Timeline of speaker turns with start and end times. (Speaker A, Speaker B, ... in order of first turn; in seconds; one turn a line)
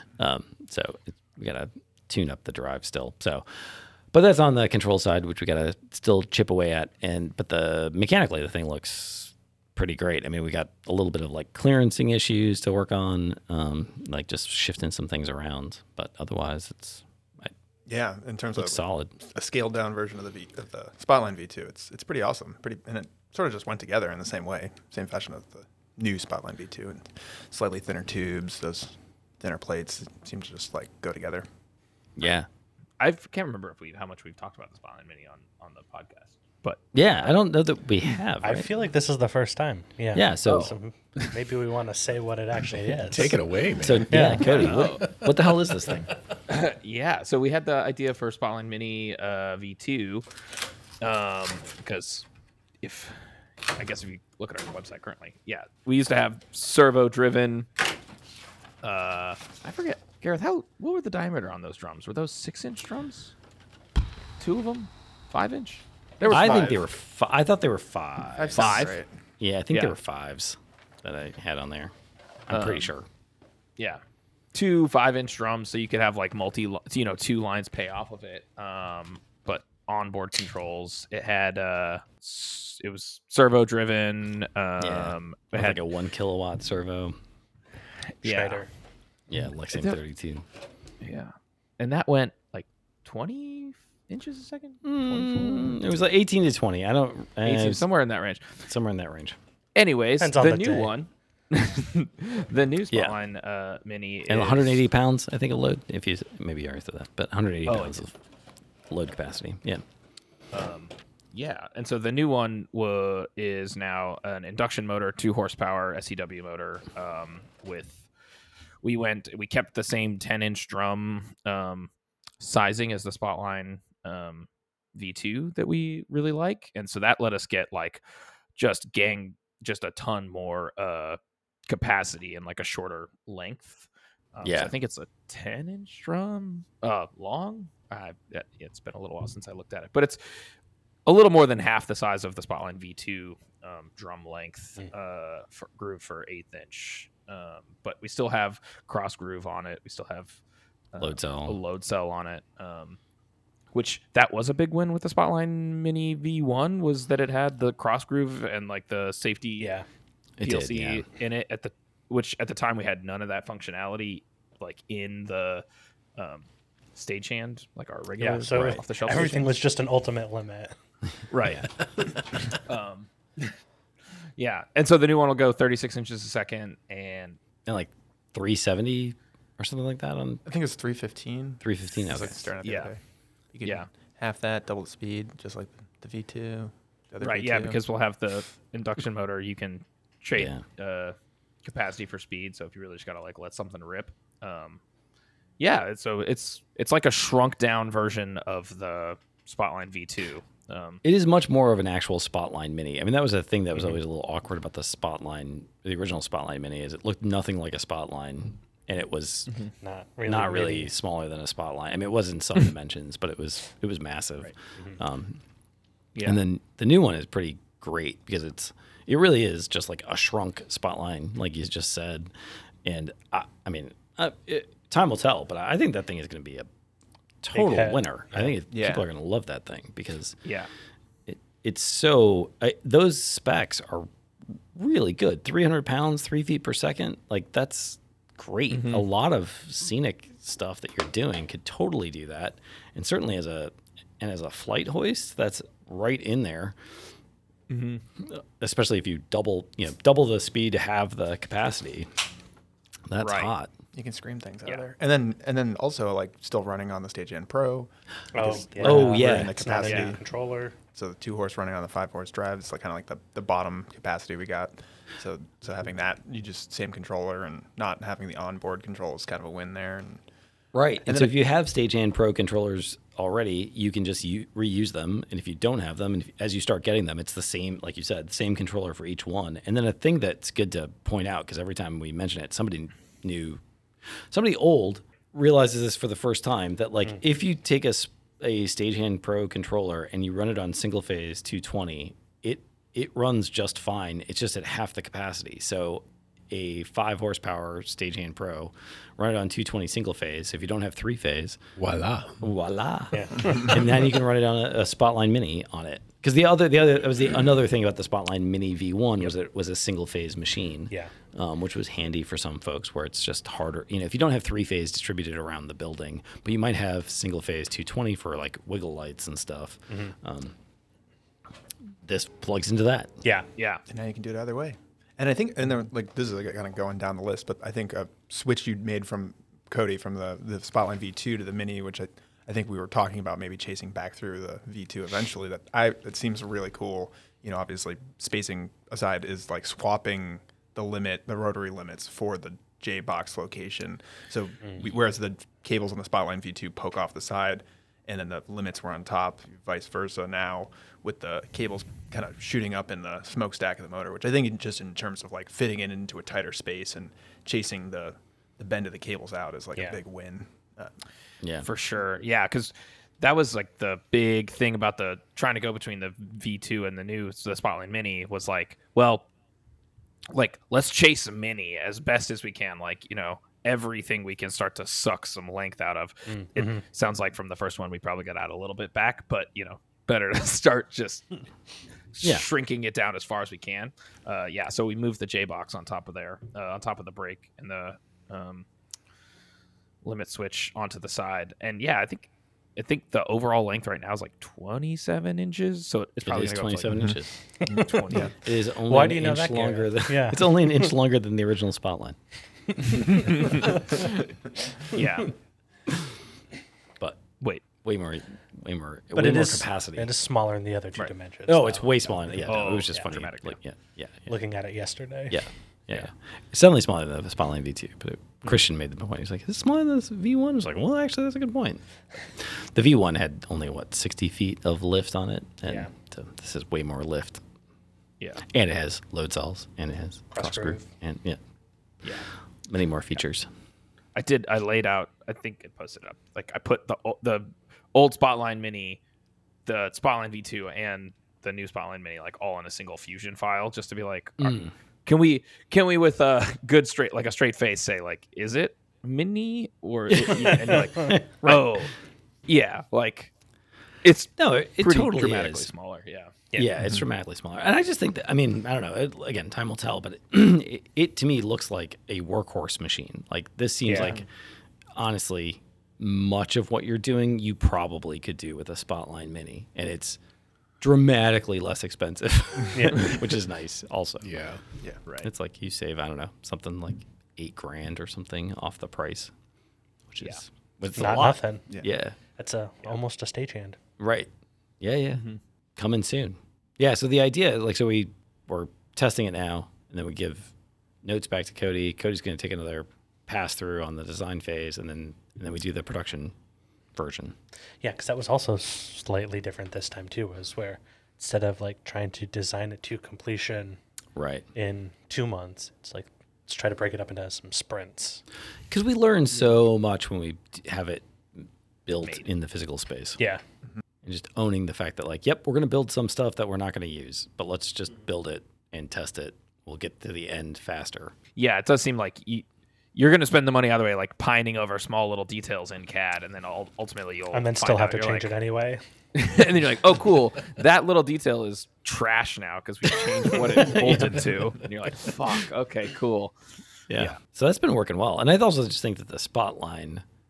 Speaker A: 0.2-17.5
Speaker B: 17.9-31.4
Speaker A: 18.6-19.1
Speaker A: 32.2-32.5
Speaker C: 33.0-36.8
Speaker A: 36.9-38.7
Speaker D: 38.4-43.4
Speaker A: 40.1-40.7
Speaker C: 40.5-40.7
Speaker E: 43.0-45.5
Speaker A: 43.8-46.1
Speaker D: 44.1-44.6
Speaker C: 44.4-45.0
Speaker C: 46.5-50.3
Speaker C: 51.0-52.3
Speaker C: 52.8-57.7
Speaker C: 58.8-63.3
Speaker C: 64.4-66.8
Speaker B: 66.2-66.8
Speaker A: 66.3-71.9
Speaker B: 68.4-69.1
Speaker C: 68.5-69.0
Speaker A: 72.5-73.1
Speaker C: 72.5-72.9
Speaker C: 74.5-85.8
Speaker A: 84.8-87.2
Speaker C: 88.2-88.6
Speaker D: 88.2-88.7
Speaker A: 89.3-90.5
Speaker C: 89.7-90.0
Speaker C: 91.0-95.8
Speaker A: 94.8-97.8
Speaker C: 97.5-98.6
Speaker A: 98.7-99.4
Speaker C: 99.7-104.8
Speaker D: 100.2-100.9
Speaker A: 104.3-108.1
Speaker C: 107.7-108.0
Speaker A: 108.9-109.8
Speaker C: 110.5-118.1
Speaker C: 118.8-128.0
Speaker C: 128.6-140.2
Speaker A: 134.4-134.7
Speaker C: 141.1-150.4
Speaker C: 150.9-153.0
Speaker A: 151.0-151.6
Speaker C: 153.7-159.7
Speaker D: 159.6-159.9
Speaker A: 160.4-161.1
Speaker C: 160.4-165.6
Speaker C: 166.2-169.6
Speaker D: 168.2-170.7
Speaker C: 171.3-173.6
Speaker C: 174.4-177.4
Speaker A: 177.7-180.4
Speaker B: 180.4-183.0
Speaker A: 181.6-182.4
Speaker C: 182.6-182.9
Speaker B: 183.5-187.8
Speaker C: 183.6-183.9
Speaker C: 187.2-194.8
Speaker A: 190.3-190.6
Speaker C: 195.6-201.0
Speaker A: 201.0-209.5
Speaker D: 209.8-210.9
Speaker A: 210.3-215.4
Speaker A: 216.2-222.3
Speaker A: 222.8-226.7
Speaker A: 227.4-230.4
Speaker D: 227.5-228.0
Speaker B: 228.7-229.0
Speaker A: 231.3-234.1
Speaker A: 234.7-246.8
Speaker C: 238.7-239.1
Speaker C: 247.7-248.0
Speaker A: 248.2-252.1
Speaker A: 253.1-253.7
Speaker C: 253.2-253.5
Speaker B: 253.9-260.2
Speaker D: 258.3-260.8
Speaker A: 258.8-259.6
Speaker B: 260.9-270.2
Speaker A: 270.7-283.6
Speaker B: 271.1-271.3
Speaker A: 284.3-301.6
Speaker E: 301.8-302.4
Speaker A: 302.4-320.6
Speaker D: 303.1-303.6
Speaker D: 319.9-320.1
Speaker A: 322.0-323.2
Speaker C: 323.6-323.8
Speaker B: 323.9-360.9
Speaker A: 361.4-361.7
Speaker C: 361.6-369.2
Speaker C: 370.3-381.4
Speaker D: 376.3-376.8
Speaker C: 382.1-388.6
Speaker A: 382.2-382.5
Speaker C: 390.0-398.3
Speaker A: 396.2-397.3
Speaker D: 397.7-398.1
Speaker B: 397.7-398.3
Speaker A: 398.3-402.2
Speaker D: 398.9-400.9
Speaker C: 403.0-404.1
Speaker C: 404.9-405.3
Speaker A: 407.8-410.1
Speaker D: 409.1-412.5
Speaker A: 411.5-414.3
Speaker C: 412.4-413.6
Speaker D: 414.3-415.4
Speaker A: 415.3-421.8
Speaker A: 422.4-427.4
Speaker A: 428.4-431.4
Speaker D: 430.3-430.9
Speaker A: 432.7-433.5
Speaker C: 434.1-439.0
Speaker C: 439.6-451.9
Speaker A: 444.4-444.7
Speaker A: 450.2-451.7
Speaker C: 452.5-453.3
Speaker C: 454.0-456.6
Speaker A: 454.4-455.7
Speaker A: 456.6-464.3
Speaker D: 463.8-464.2
Speaker A: 464.9-470.2
Speaker A: 470.8-474.3
Speaker D: 472.7-473.1
Speaker E: 474.2-474.6
Speaker A: 475.2-479.3
Speaker A: 480.1-482.1
Speaker D: 480.9-481.6
Speaker D: 482.4-483.8
Speaker A: 484.0-484.3
Speaker A: 484.8-485.2
Speaker A: 485.8-490.5
Speaker A: 491.0-496.3
Speaker A: 496.9-497.3
Speaker D: 497.8-503.8
Speaker A: 504.1-504.5
Speaker D: 504.6-508.2
Speaker A: 508.7-513.2
Speaker A: 514.0-521.1
Speaker C: 521.4-528.3
Speaker D: 527.3-528.8
Speaker C: 529.1-536.3
Speaker A: 533.3-534.5
Speaker A: 536.9-540.0
Speaker C: 536.9-537.1